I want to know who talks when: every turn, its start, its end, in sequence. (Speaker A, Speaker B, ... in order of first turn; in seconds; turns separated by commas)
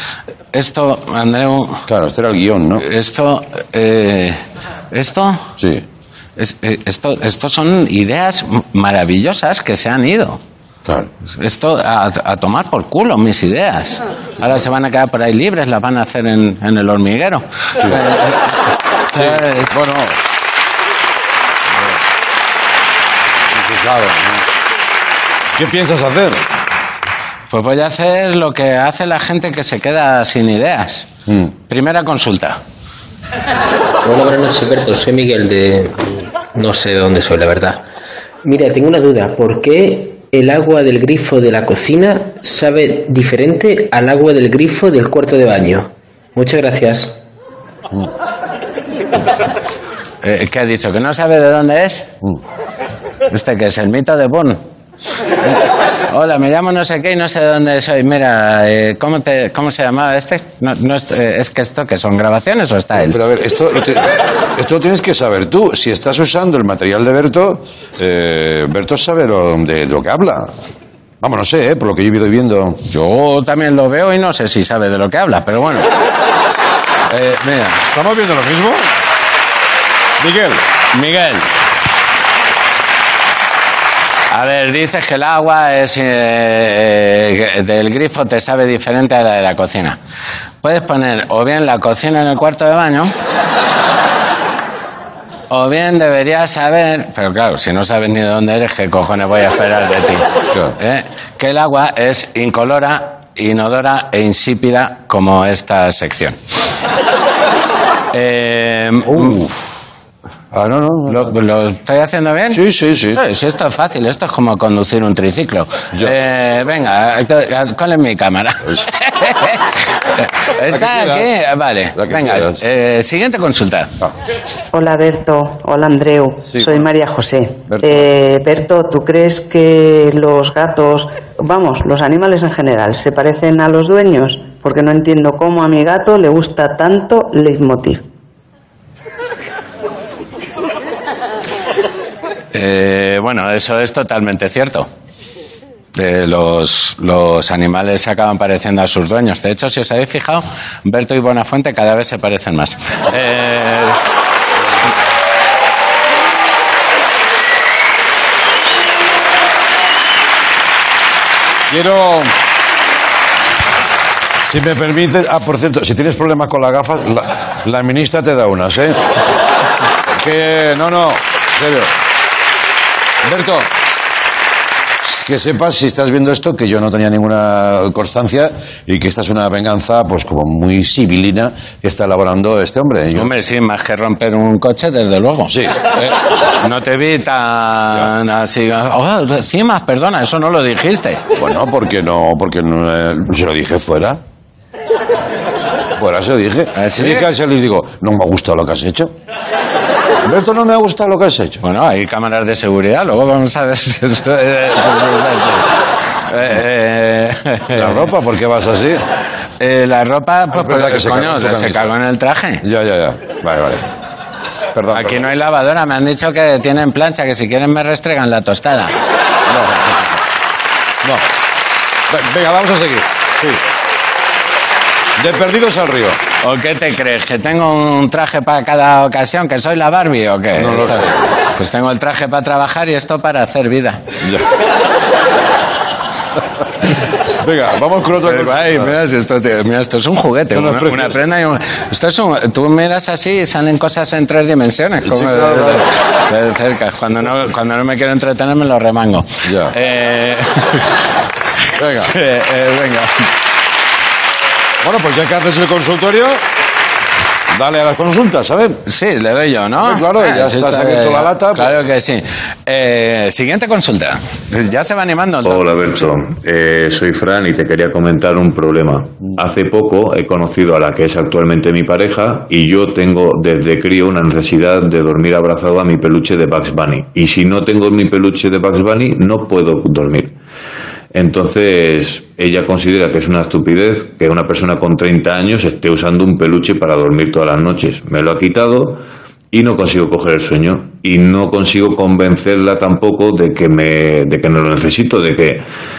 Speaker A: 0.5-1.8, Speaker B: 1.9-2.8, Speaker A: 2.8-4.4, Speaker A: 4.9-5.4, Speaker B: 5.6-5.8, Speaker A: 6.4-10.4, Speaker A: 11.3-18.4, Speaker A: 19.1-19.7, Speaker B: 19.1-20.2, Speaker B: 23.5-24.4, Speaker B: 25.5-26.4, Speaker A: 27.5-31.1, Speaker A: 31.7-32.6, Speaker C: 34.0-37.8, Speaker C: 38.4-47.2, Speaker A: 50.2-52.0, Speaker A: 53.3-54.6, Speaker A: 55.4-63.2, Speaker B: 63.0-70.5, Speaker B: 71.2-72.8, Speaker A: 72.9-75.9, Speaker A: 77.1-77.8, Speaker B: 77.9-78.9, Speaker B: 80.2-80.6, Speaker A: 80.9-81.4, Speaker A: 84.3-90.0, Speaker A: 90.6-93.1, Speaker A: 95.5-100.2, Speaker A: 100.8-106.3, Speaker A: 108.1-109.4, Speaker B: 109.1-109.5, Speaker B: 110.5-111.3, Speaker A: 111.1-112.6, Speaker B: 112.5-113.2, Speaker A: 113.2-119.6, Speaker A: 120.6-123.9, Speaker B: 120.7-121.3, Speaker B: 121.9-122.6, Speaker D: 124.7-138.0, Speaker B: 126.5-126.8, Speaker B: 127.7-128.1, Speaker A: 142.5-144.9, Speaker A: 145.9-154.0, Speaker B: 161.7-162.3, Speaker B: 164.4-169.0, Speaker B: 170.1-171.9, Speaker B: 173.2-173.7, Speaker B: 175.0-183.3, Speaker A: 183.1-191.2, Speaker B: 185.5-185.8, Speaker B: 191.3-194.2, Speaker B: 195.9-199.1, Speaker A: 196.7-197.3, Speaker B: 200.2-201.6, Speaker A: 201.6-205.7, Speaker A: 206.3-208.1, Speaker B: 207.7-209.0, Speaker A: 209.6-212.6, Speaker B: 210.5-211.9, Speaker B: 212.6-213.8, Speaker B: 214.7-215.3, Speaker A: 214.9-218.9, Speaker B: 219.5-220.2, Speaker B: 222.1-223.6, Speaker B: 225.2-226.2, Speaker A: 226.4-234.0, Speaker B: 230.6-231.3, Speaker B: 237.4-238.9, Speaker A: 238.2-250.8, Speaker B: 240.5-241.1, Speaker B: 245.0-245.8, Speaker B: 249.4-249.7, Speaker B: 251.8-252.1, Speaker A: 251.8-253.2, Speaker B: 254.8-256.4, Speaker B: 257.5-258.8, Speaker A: 258.9-265.6, Speaker B: 259.8-261.7, Speaker E: 265.4-280.3, Speaker E: 281.1-289.0, Speaker E: 289.5-295.6